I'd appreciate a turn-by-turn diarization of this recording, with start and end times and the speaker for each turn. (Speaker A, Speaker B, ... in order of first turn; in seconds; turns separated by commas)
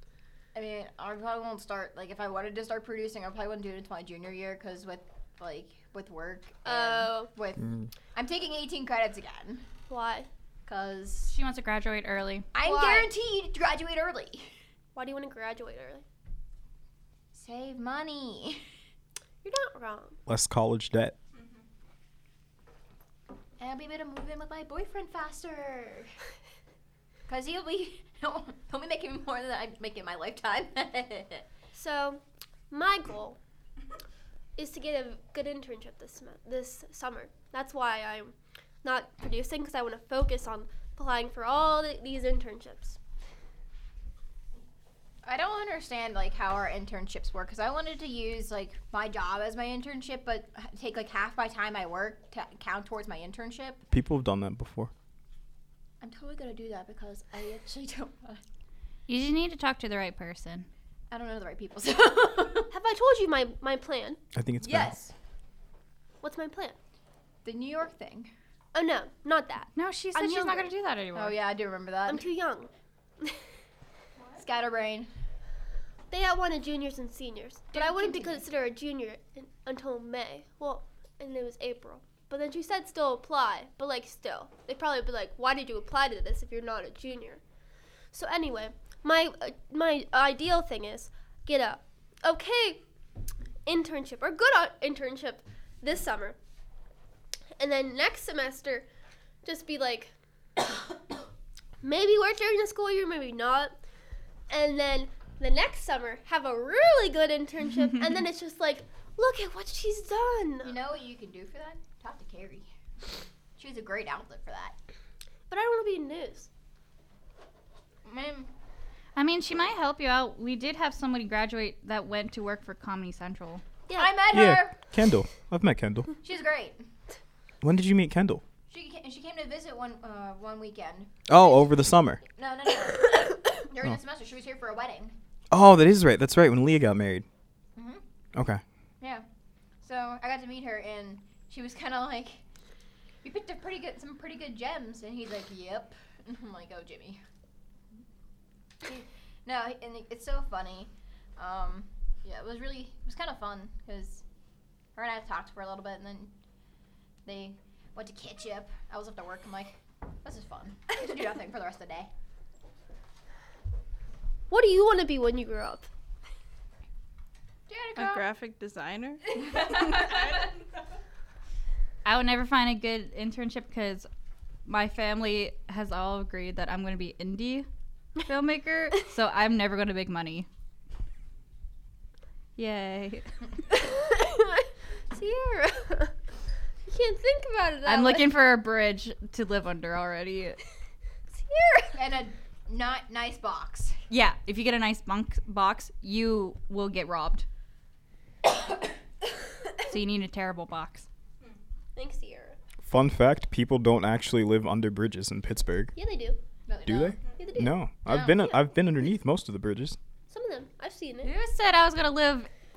Speaker A: 0.5-9.6, Speaker B: 6.6-7.3, Speaker C: 7.6-7.9, Speaker B: 9.9-10.3, Speaker A: 10.7-11.3, Speaker D: 11.3-12.5, Speaker A: 12.5-14.5, Speaker B: 12.6-13.1, Speaker B: 14.9-16.0, Speaker A: 17.3-18.6, Speaker B: 19.4-20.2, Speaker C: 20.3-21.1, Speaker E: 21.3-21.6, Speaker A: 23.6-26.1, Speaker A: 27.3-31.4, Speaker B: 31.7-33.4, Speaker B: 34.6-43.0, Speaker A: 45.2-53.8, Speaker C: 53.9-54.9, Speaker A: 56.0-58.4, Speaker D: 59.1-60.7, Speaker A: 61.1-62.7, Speaker B: 62.7-64.2, Speaker C: 64.3-64.9, Speaker A: 64.6-65.1, Speaker B: 66.2-66.8, Speaker A: 67.4-68.3, Speaker B: 68.7-70.7, Speaker D: 69.8-71.4, Speaker A: 71.1-72.3, Speaker B: 72.0-72.7, Speaker E: 74.2-74.5, Speaker A: 74.4-75.1, Speaker B: 76.1-87.4, Speaker A: 77.7-78.4, Speaker B: 88.1-92.8, Speaker B: 93.7-96.3, Speaker B: 97.6-98.8, Speaker B: 99.4-100.1, Speaker B: 101.8-103.8, Speaker B: 104.5-110.8, Speaker A: 110.6-112.7, Speaker A: 113.5-114.8, Speaker B: 115.5-116.5, Speaker A: 118.0-118.5, Speaker D: 119.2-123.6, Speaker B: 123.9-124.1, Speaker A: 124.0-124.8, Speaker C: 124.3-126.1, Speaker A: 126.2-126.8, Speaker C: 127.6-128.4, Speaker A: 128.7-135.2, Speaker C: 131.3-132.2, Speaker C: 135.5-137.2, Speaker A: 137.8-138.0, Speaker C: 138.3-138.6, Speaker A: 139.0-139.2, Speaker A: 139.8-142.4, Speaker A: 143.2-147.2, Speaker A: 148.8-154.2, Speaker A: 154.9-156.3, Speaker A: 157.2-162.1, Speaker B: 164.5-165.9, Speaker A: 167.7-168.3, Speaker E: 167.9-170.6, Speaker D: 172.0-174.1, Speaker D: 174.7-177.7, Speaker D: 178.2-180.5, Speaker D: 182.6-183.3, Speaker B: 183.7-186.1, Speaker B: 186.9-188.3, Speaker D: 187.8-190.6, Speaker B: 191.3-191.9, Speaker A: 191.9-194.0, Speaker D: 194.1-197.4, Speaker D: 199.9-201.1, Speaker B: 201.9-202.6, Speaker C: 202.8-205.9, Speaker B: 205.9-206.4, Speaker A: 206.7-207.2, Speaker C: 206.8-210.0, Speaker B: 207.4-207.8, Speaker A: 208.1-208.5, Speaker B: 210.3-211.3, Speaker D: 211.2-212.5